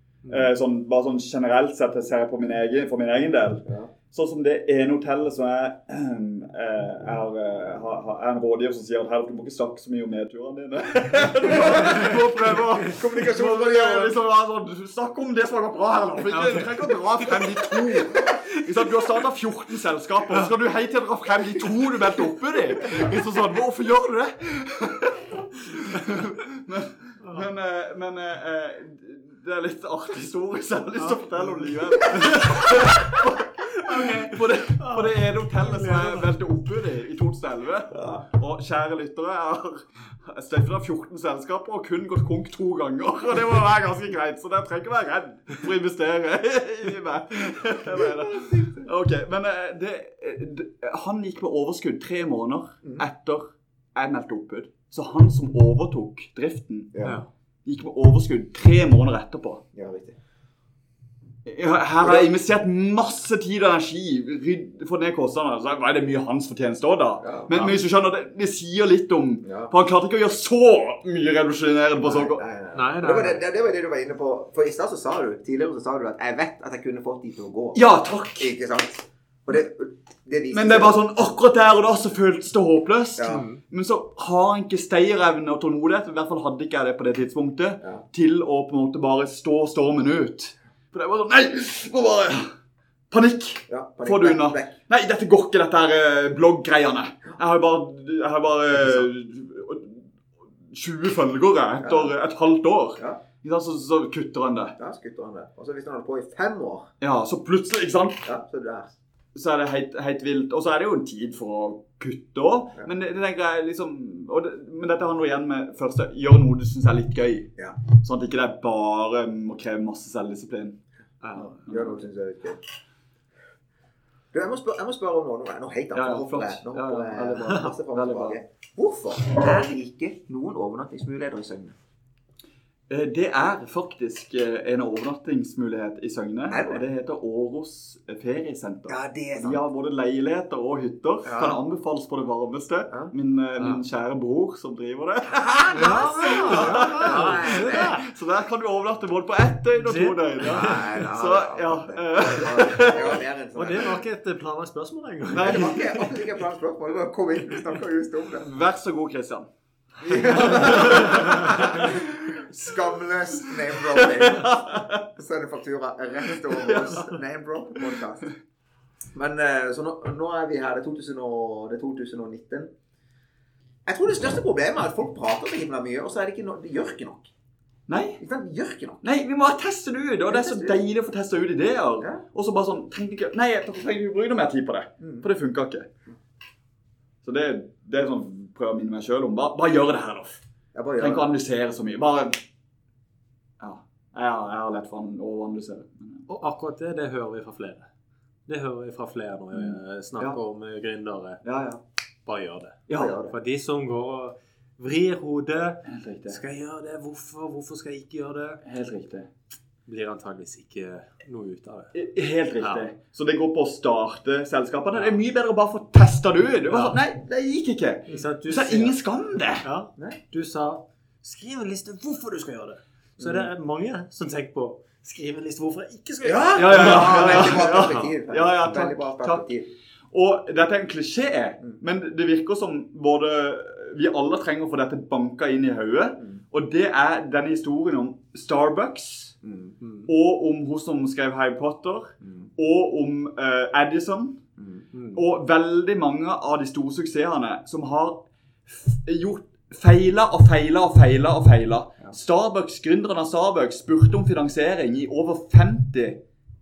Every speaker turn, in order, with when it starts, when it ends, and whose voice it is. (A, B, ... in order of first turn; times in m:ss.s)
0:00.2-0:00.5 A
0:00.3-0:56.9 B
0:03.6-0:03.9 C
0:11.5-0:12.2 C
0:11.7-0:12.2 A
0:12.8-0:14.2 C
0:16.3-0:18.3 A
0:31.0-0:33.0 A
0:33.8-0:36.3 A
0:37.9-0:38.2 C
0:47.9-0:48.9 C
0:56.9-0:57.2 C
0:57.0-0:57.3 A
0:57.6-0:59.6 B
0:59.7-1:00.2 C
1:01.4-1:12.4 B
1:02.0-1:02.3 C
1:07.2-1:07.7 C
1:09.4-1:09.7 C
1:12.0-1:17.8 C
1:12.7-1:13.4 A
1:17.7-1:18.5 B
1:18.4-1:21.0 C
1:20.5-1:32.5 B
1:23.2-1:23.5 C
1:23.2-1:23.6 A
1:33.1-1:40.1 B
1:33.7-1:34.7 C
1:40.7-1:44.7 B
1:41.8-1:42.1 C
1:44.8-1:46.9 C
1:47.0-1:48.2 B
1:48.2-1:48.9 C
1:49.3-2:00.8 B
2:01.3-2:02.0 B
2:01.6-2:02.6 C
2:04.3-2:11.8 C
2:05.9-2:08.4 B
2:12.9-2:33.2 B
2:16.5-2:16.8 C
2:18.9-2:19.6 C
2:21.2-2:21.6 C
2:25.5-2:28.0 C
2:25.7-2:28.0 A
2:29.8-2:30.9 A
2:30.5-2:34.0 C
2:33.5-2:36.1 A
2:35.3-2:36.2 B
2:35.4-2:38.5 C
2:38.4-2:39.5 B
2:40.0-2:48.3 C
2:40.1-2:42.4 B
2:40.6-2:41.7 A
2:43.4-2:45.1 B
2:46.3-2:47.1 B
2:49.1-2:52.7 C
2:53.8-2:57.3 C
2:57.9-2:58.2 B
2:58.2-2:59.0 C
2:59.0-3:05.9 B
3:00.3-3:00.8 C
3:05.0-3:05.3 C
3:07.2-3:10.4 B
3:10.7-3:11.3 C
3:11.0-3:12.4 B
3:13.6-3:16.2 B
3:16.3-3:17.9 A
3:18.5-3:21.4 A
3:19.5-3:20.4 B
3:21.4-3:21.8 B
3:22.2-3:28.6 A
3:22.9-3:23.2 B
3:23.0-3:23.4 C
3:25.8-3:26.4 B
3:28.6-3:29.3 B
3:29.8-3:31.9 A
3:31.9-3:39.6 B
3:32.6-3:32.9 A
3:34.9-3:35.2 A
3:36.7-3:37.0 A
3:38.1-3:39.0 A
3:39.6-3:48.2 A
3:43.2-3:43.5 C
3:46.2-3:49.7 C
3:46.5-3:49.5 B
3:50.1-3:59.4 B
3:59.4-3:59.8 C
3:59.8-4:00.1 A
4:00.0-4:04.4 B
4:02.2-4:02.5 C
4:04.6-4:04.8 C
4:04.9-4:05.2 A
4:05.1-4:16.2 B